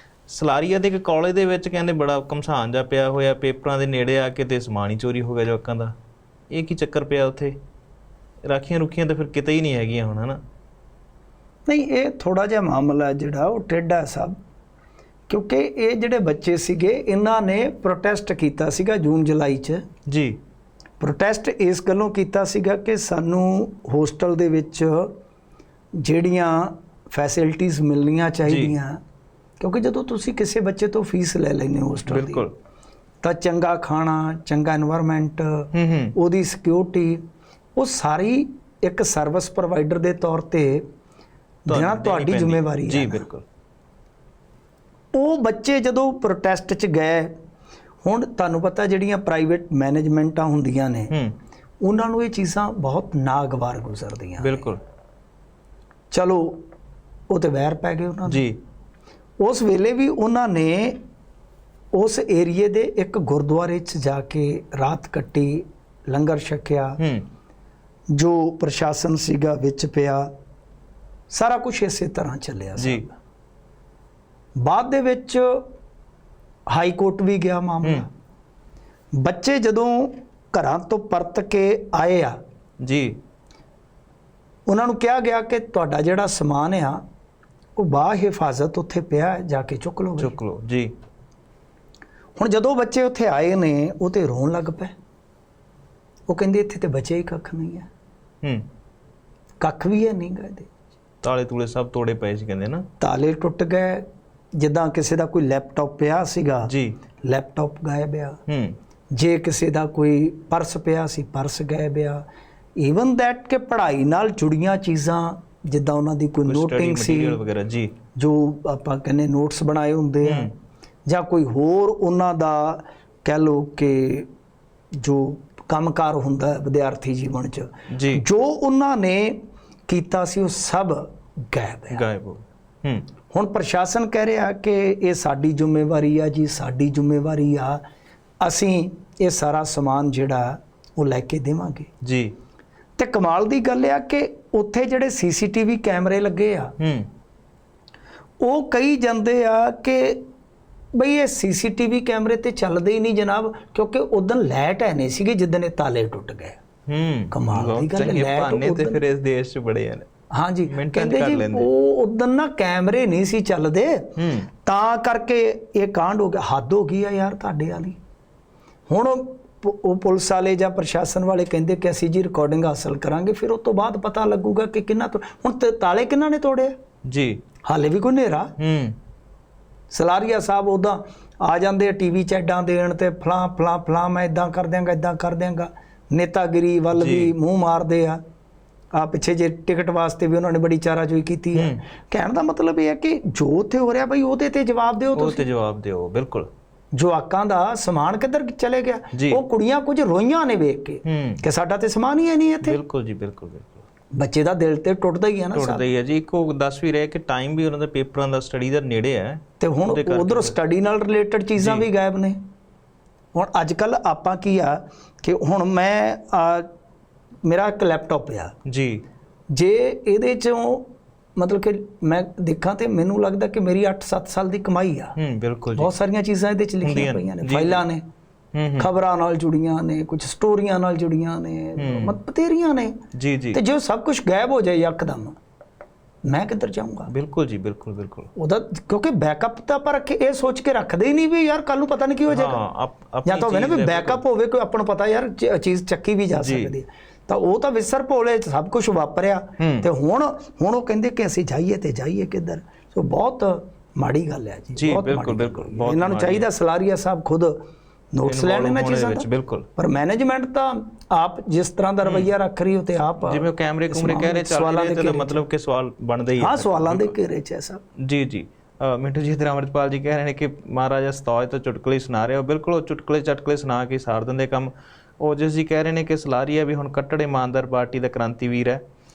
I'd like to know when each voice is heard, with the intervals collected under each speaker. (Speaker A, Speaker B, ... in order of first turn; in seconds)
Speaker A: 0.3-5.9, 6.5-7.5, 8.4-10.4, 20.1-20.4, 28.5-28.7, 32.0-32.5, 35.7-36.1, 41.7-43.4, 54.4-54.8, 58.3-58.6, 67.0-67.2, 72.8-73.0, 82.8-83.2, 90.2-90.9, 101.2-102.8, 106.7-107.0, 108.5-108.8, 116.5-117.9, 120.2-120.5, 127.9-128.2, 131.9-133.1, 142.0-142.3, 146.8-147.1, 156.9-160.1, 160.7-161.7, 164.2-164.5, 177.0-177.4, 178.6-178.9, 186.9-187.3, 191.5-191.8, 195.1-196.5, 199.1-199.4, 201.0-201.4, 202.6-203.8, 205.5-210.6, 211.6-211.9, 218.7-219.0, 225.2-225.9, 226.8-227.8, 228.5-228.9, 231.8-232.2, 233.1-233.6, 237.1-238.3, 242.3-244.2, 246.3-246.7, 249.6-249.9, 254.7-256.5, 258.2-259.7, 262.0-262.3, 263.2-267.1, 268.0-278.8
Speaker B: 11.7-14.4, 15.3-19.8, 21.0-25.1, 26.0-29.0, 29.6-32.5, 33.2-37.2, 37.8-40.9, 41.6-43.3, 45.1-47.3, 48.0-51.1, 51.8-54.7, 56.1-56.6, 57.3-58.4, 59.4-61.0, 61.9-67.0, 68.1-70.3, 71.3-73.1, 74.6-75.7, 76.7-78.1, 79.1-82.4, 84.7-87.0, 87.8-90.3, 92.4-94.9, 96.3-97.9, 99.6-100.7, 103.0-106.7, 107.2-108.4, 109.1-112.2, 112.8-117.4, 118.2-120.5, 121.0-124.3, 125.0-132.0, 133.3-137.8, 138.4-141.9, 143.0-146.7, 148.4-150.2, 150.9-156.6, 157.3-159.0, 160.3-164.1, 164.6-168.0, 168.9-176.8, 177.6-178.5, 179.9-188.2, 188.9-195.4, 196.9-202.8, 204.1-205.8, 209.6-212.4, 213.3-216.7, 217.4-218.5, 219.5-225.2, 225.7-228.0, 228.8-232.9, 233.5-235.4, 236.2-237.1, 238.3-242.6, 243.2-265.4, 266.4-267.8